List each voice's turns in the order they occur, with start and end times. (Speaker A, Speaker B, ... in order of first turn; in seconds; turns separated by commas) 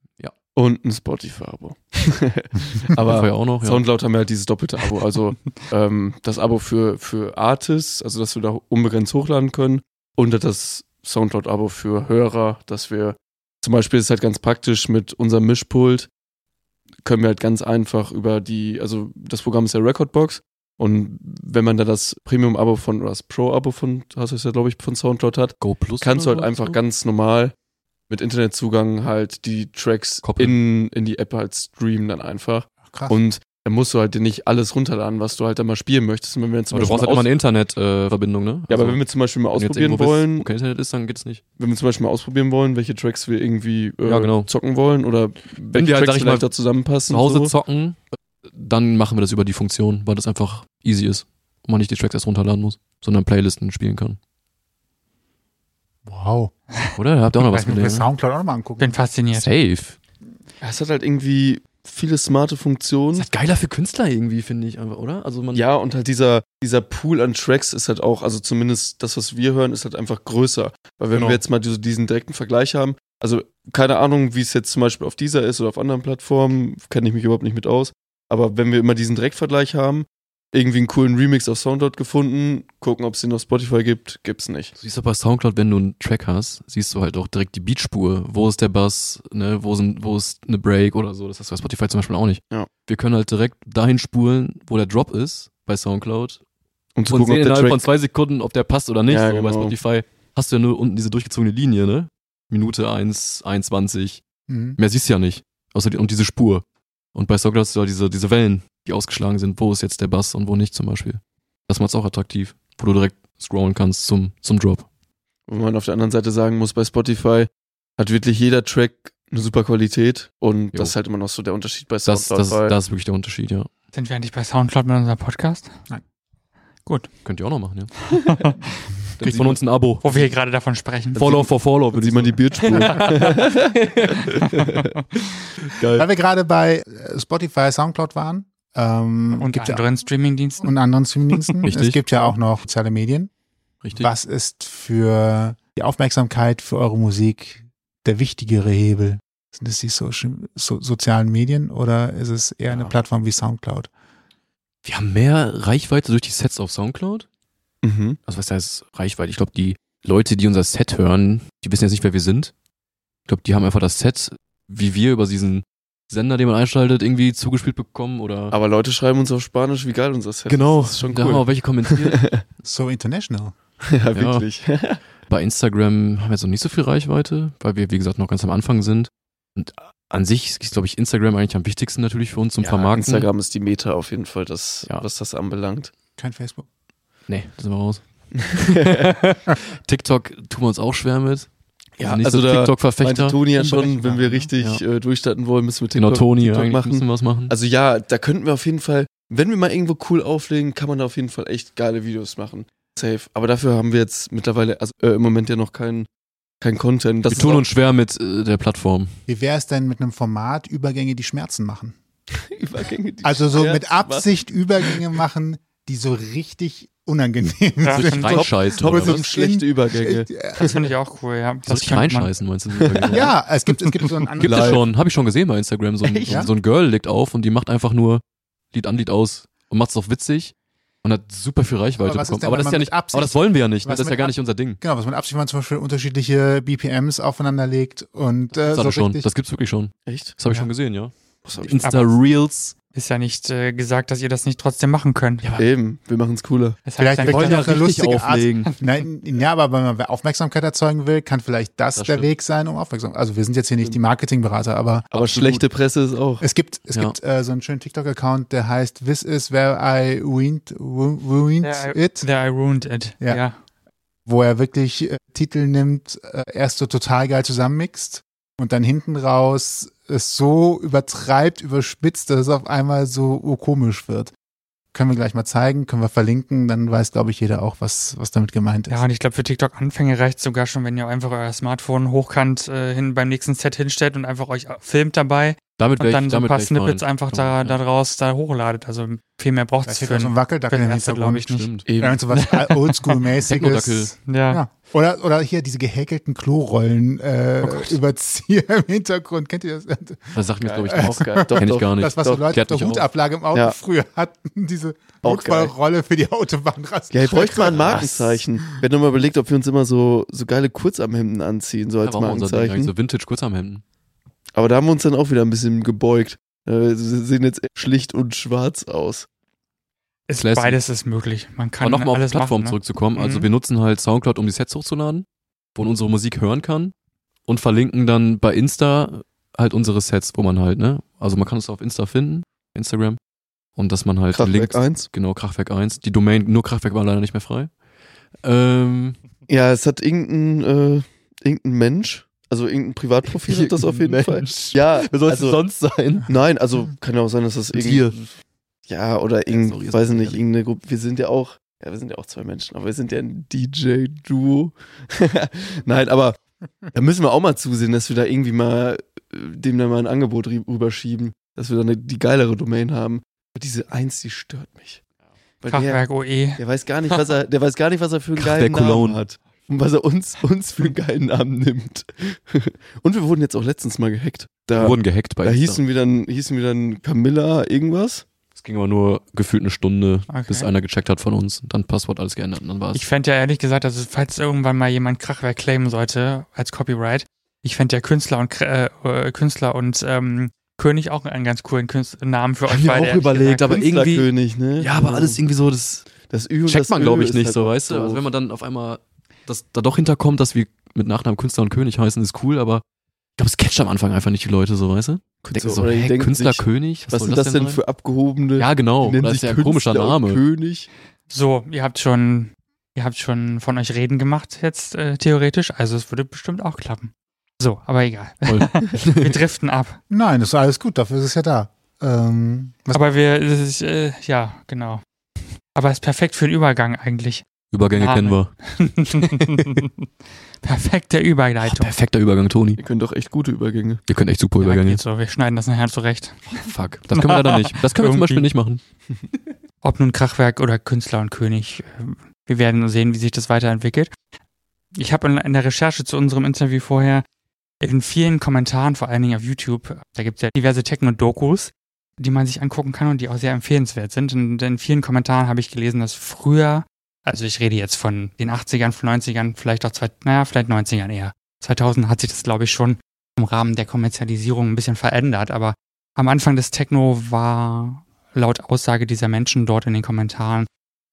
Speaker A: 0.5-16.1, Speaker B: 3.0-3.8, Speaker A: 17.0-27.5, Speaker B: 25.6-26.8, Speaker A: 28.1-37.3, Speaker B: 30.2-30.5, Speaker C: 32.8-33.2, Speaker B: 36.7-39.0, Speaker A: 38.7-40.5, Speaker B: 39.5-41.4, Speaker A: 41.6-47.5, Speaker B: 44.0-44.5, Speaker B: 45.7-46.5, Speaker B: 47.1-54.2, Speaker C: 56.0-56.5, Speaker B: 57.0-58.1, Speaker C: 57.4-59.0, Speaker D: 58.8-59.5, Speaker B: 59.3-60.0, Speaker A: 60.6-63.3, Speaker B: 63.1-65.6, Speaker A: 65.5-84.7, Speaker B: 71.1-71.4, Speaker B: 84.8-96.4, Speaker A: 97.0-97.9, Speaker B: 97.0-104.2, Speaker A: 99.1-99.8, Speaker C: 104.5-104.8, Speaker B: 104.8-114.8, Speaker A: 115.5-122.7, Speaker B: 122.0-123.7, Speaker D: 123.9-125.8, Speaker D: 126.8-127.1, Speaker B: 127.2-128.0, Speaker D: 128.1-128.7, Speaker B: 129.2-130.3, Speaker C: 129.2-129.6, Speaker D: 130.0-131.4, Speaker A: 131.2-133.7, Speaker B: 131.2-134.8, Speaker D: 132.7-133.3, Speaker B: 135.6-136.1, Speaker C: 135.9-139.8, Speaker D: 139.4-140.7, Speaker C: 140.6-143.3, Speaker B: 141.7-142.3, Speaker B: 143.8-144.1, Speaker C: 143.9-153.9, Speaker B: 154.8-157.2, Speaker A: 157.8-158.2, Speaker B: 158.3-162.5, Speaker B: 163.3-168.5, Speaker A: 168.5-172.4, Speaker B: 170.5-172.2, Speaker C: 172.6-173.5, Speaker A: 173.8-175.0, Speaker B: 174.1-174.4, Speaker B: 175.3-183.3, Speaker A: 182.6-185.9, Speaker C: 186.2-186.6, Speaker B: 187.3-194.0, Speaker A: 188.4-189.1, Speaker A: 192.0-206.1, Speaker C: 193.6-194.5, Speaker B: 194.6-194.8, Speaker B: 195.9-197.5, Speaker A: 206.6-207.6, Speaker B: 207.3-209.1, Speaker C: 209.3-211.9, Speaker A: 212.3-214.3, Speaker C: 213.2-220.8, Speaker D: 217.8-218.4, Speaker B: 217.9-219.2, Speaker A: 218.2-220.8, Speaker D: 220.6-222.3, Speaker B: 221.7-223.3, Speaker A: 222.8-223.3, Speaker C: 223.1-224.8, Speaker B: 224.4-230.5, Speaker A: 224.5-224.8, Speaker A: 226.0-226.5, Speaker B: 231.0-234.8, Speaker C: 232.0-239.3, Speaker B: 238.6-242.7, Speaker A: 240.1-240.3, Speaker A: 241.4-242.1, Speaker D: 241.8-242.1, Speaker D: 242.9-245.5, Speaker B: 245.4-245.7, Speaker A: 245.6-246.8, Speaker D: 246.8-247.9, Speaker C: 247.0-255.6, Speaker B: 247.2-248.7, Speaker B: 251.9-252.3, Speaker A: 255.1-256.4, Speaker C: 256.4-262.2, Speaker D: 261.6-263.5, Speaker C: 264.2-274.3, Speaker C: 274.9-279.0, Speaker D: 278.9-291.7, Speaker B: 285.8-287.8, Speaker C: 289.9-300.4, Speaker B: 291.5-291.9, Speaker A: 291.9-292.2, Speaker D: 292.3-293.2, Speaker B: 293.4-294.1, Speaker D: 294.2-294.6, Speaker B: 300.3-303.1, Speaker A: 300.6-302.4, Speaker C: 300.9-308.4, Speaker A: 305.2-305.7, Speaker A: 307.1-312.9, Speaker B: 307.7-308.1, Speaker B: 312.0-313.8, Speaker A: 314.6-319.3, Speaker D: 320.3-323.5, Speaker B: 320.4-320.8, Speaker B: 321.8-326.9, Speaker B: 327.4-333.2, Speaker B: 333.8-337.7, Speaker A: 334.3-335.1, Speaker B: 338.4-339.2, Speaker A: 339.5-345.6, Speaker B: 343.2-346.3, Speaker A: 346.2-348.2, Speaker B: 347.7-348.2, Speaker A: 348.9-356.4, Speaker B: 349.5-350.4, Speaker A: 356.9-365.0, Speaker A: 365.6-366.0, Speaker D: 365.7-366.6, Speaker A: 366.6-378.2, Speaker B: 368.4-369.2, Speaker B: 374.8-375.8, Speaker B: 378.5-383.0, Speaker D: 380.3-380.7, Speaker D: 382.9-393.6, Speaker B: 392.7-396.1, Speaker A: 393.6-395.4, Speaker A: 396.2-398.2, Speaker B: 396.6-402.8, Speaker B: 403.4-407.8, Speaker A: 405.4-410.9, Speaker B: 408.6-410.4, Speaker D: 411.3-420.0, Speaker B: 418.5-419.4, Speaker C: 420.1-423.0, Speaker D: 422.9-425.0, Speaker D: 425.7-429.9, Speaker B: 427.7-428.6, Speaker B: 429.1-429.9, Speaker D: 430.6-431.9, Speaker B: 431.6-432.8, Speaker A: 432.8-434.0, Speaker B: 434.1-435.0, Speaker D: 434.6-438.5, Speaker B: 436.5-438.8, Speaker D: 439.8-444.1, Speaker D: 444.9-447.2, Speaker D: 447.8-470.7